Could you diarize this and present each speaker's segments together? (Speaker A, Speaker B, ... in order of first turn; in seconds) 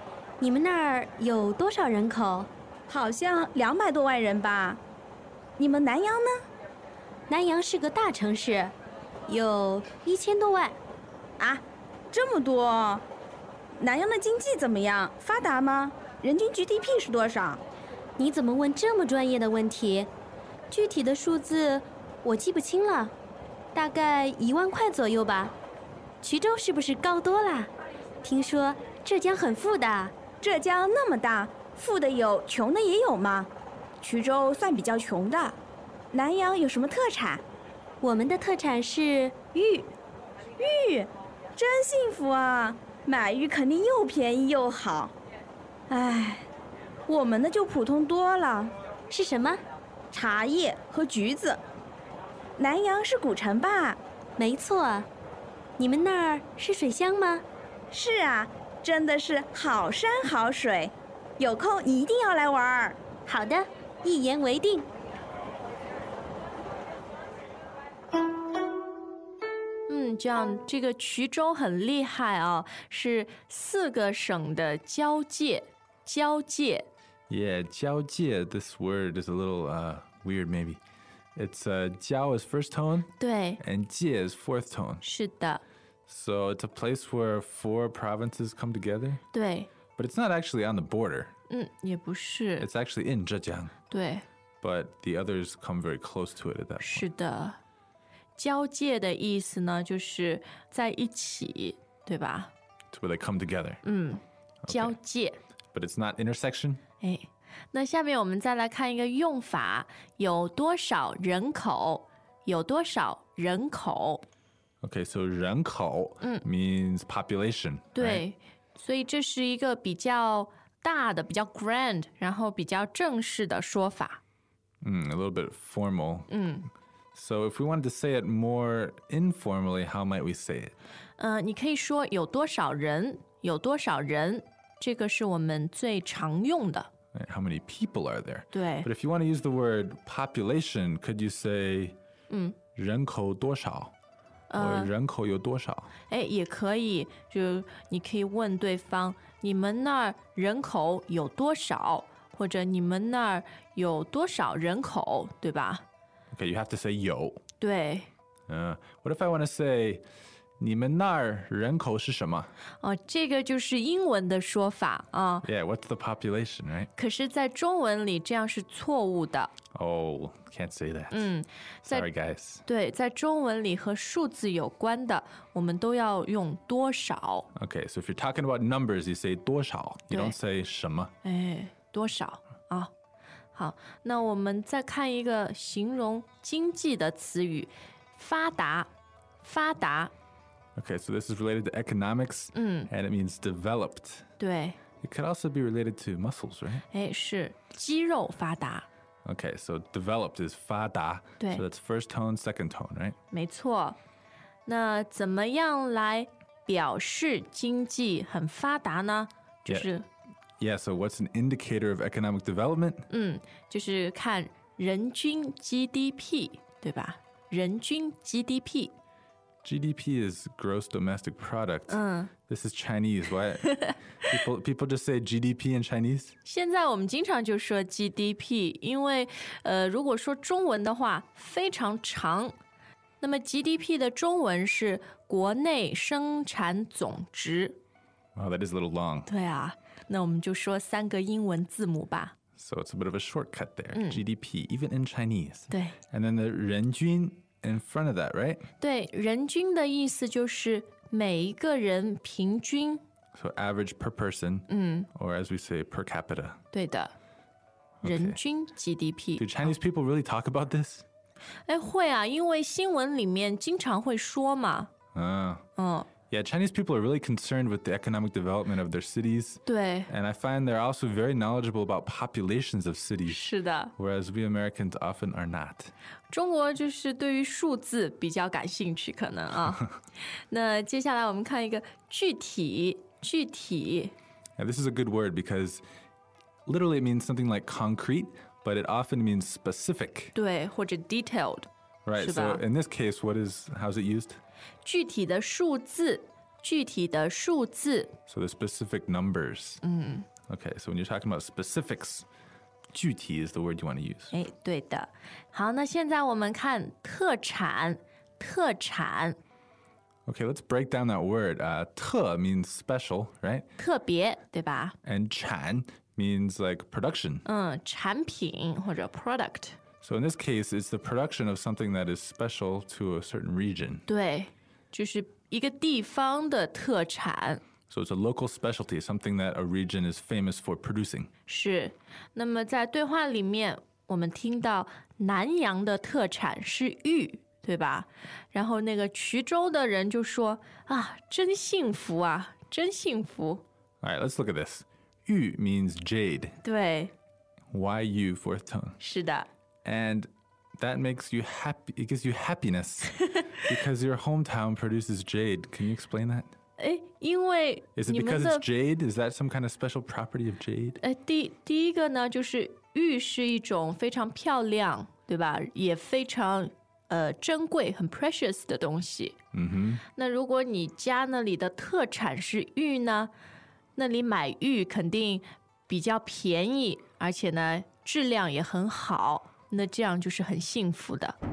Speaker A: 0.4-2.5, 7.3-8.7, 9.3-10.8, 18.2-20.1, 20.7-23.1, 23.7-25.6, 26.2-27.7, 28.2-30.1, 38.0-39.9, 49.1-49.6, 54.4-55.1, 55.8-57.4, 63.2-64.9
Speaker B: 2.9-4.8, 5.6-6.3, 11.4-13.0, 13.7-17.6, 30.4-33.5, 34.0-35.6, 36.1-37.4, 40.6-45.1, 45.9-46.5, 47.1-48.7, 50.1-51.6, 52.6-54.0, 57.9-63.1
Speaker C: 69.9-76.9, 83.2-83.6, 85.0-85.6, 89.3-89.7, 91.5-92.7, 93.9-94.2, 96.8-97.6, 98.4-102.5, 103.8-105.4, 107.0-114.2, 117.9-124.2, 126.3-126.7, 131.2-136.9, 138.5-138.9, 142.3-142.6, 144.5-144.9, 146.1-155.8, 157.6-158.1, 162.8-165.5, 166.9-169.5, 171.1-172.1, 172.6-177.5, 180.1-180.4, 181.2-182.9, 183.5-188.9, 189.4-190.1, 192.5-192.9, 194.4-194.8, 196.9-198.9, 203.3-204.0, 204.7-210.1, 213.1-218.9, 221.9-222.3, 226.4-232.6, 233.2-237.8, 239.3-242.3, 243.9-244.2, 245.7-245.9, 248.8-253.0, 254.7-255.1, 256.7-257.1, 258.0-259.7, 261.7-264.9, 265.8-266.1, 269.6-270.1, 273.3-273.9, 276.3-279.9, 280.5-284.1, 290.3-291.7, 292.2-292.6, 294.8-298.1, 299.8-300.3, 304.3-309.4, 313.8-314.9, 317.4-319.8, 324.1-327.6, 331.5-343.6, 346.6-347.1, 349.0-349.5, 356.8-358.6, 361.0-369.4, 370.1-373.3, 373.9-381.4
Speaker D: 77.3-80.8, 81.3-85.0, 86.1-89.2, 90.0-91.3, 92.6-93.7, 94.6-97.1, 102.9-103.8, 104.6-105.0, 105.7-106.8, 114.8-118.2, 124.8-126.3, 127.1-130.7, 137.1-142.0, 142.8-143.9, 144.5-145.9, 156.3-157.4, 158.5-160.0, 160.6-162.5, 165.4-166.9, 169.7-171.3, 171.8-172.6, 177.5-181.1, 190.8-194.3, 195.0-196.8, 199.2-203.2, 210.6-213.1, 219.6-226.3, 238.3-239.3, 242.6-248.7, 253.3-256.6, 258.0-258.4, 259.4-261.0, 265.1-265.6, 266.3-275.9, 284.6-285.8, 286.6-290.3, 292.1-294.4, 298.3-299.8, 300.5-302.2, 302.9-304.3, 310.3-313.7, 315.0-317.4, 320.0-324.1, 327.9-331.3, 344.0-346.6, 347.7-349.0, 349.8-356.5, 357.9-361.0, 369.5-370.0